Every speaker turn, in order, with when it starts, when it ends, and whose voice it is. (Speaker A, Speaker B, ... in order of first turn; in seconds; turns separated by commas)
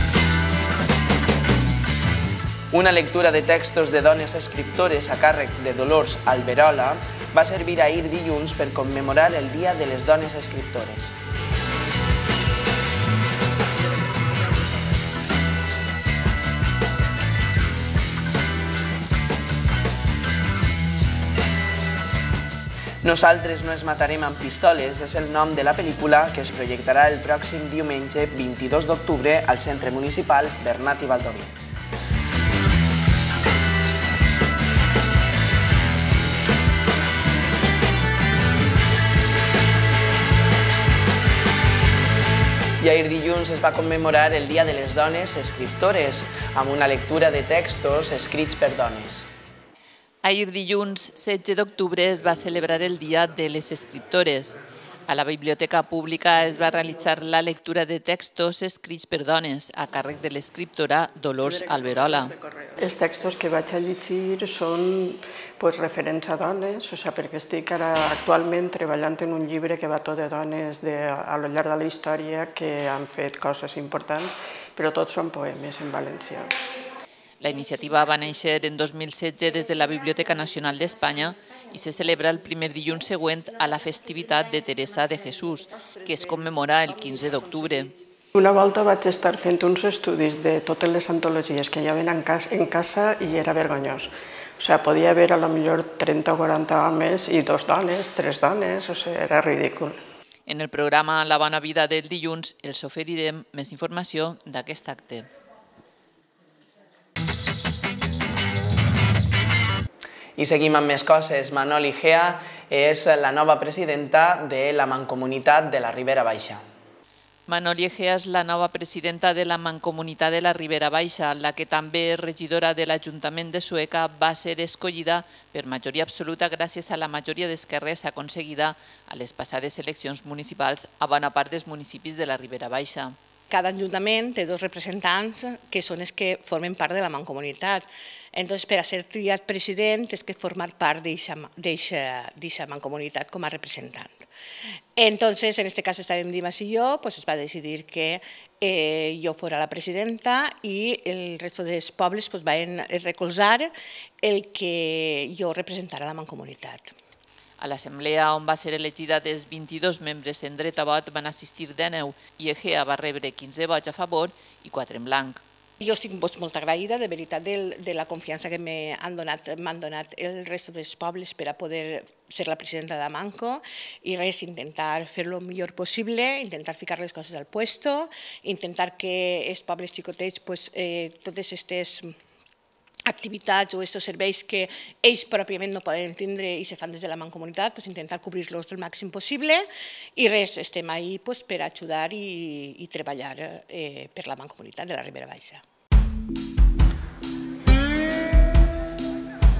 Speaker A: 2.7-11.1, Speaker A: 23.0-31.5, Speaker A: 42.8-49.3, Speaker B: 50.2-54.6, Speaker B: 55.1-62.3, Speaker C: 62.8-76.5, Speaker B: 77.4-87.9, Speaker C: 88.3-100.0, Speaker B: 100.5-105.3, Speaker A: 110.4-116.6, Speaker B: 117.5-133.2, Speaker D: 133.5-144.2, Speaker D: 144.9-153.7, Speaker D: 154.2-156.9, Speaker B: 157.6-165.4, Speaker D: 165.8-182.1, Speaker D: 183.1-189.6, Speaker D: 190.2-195.6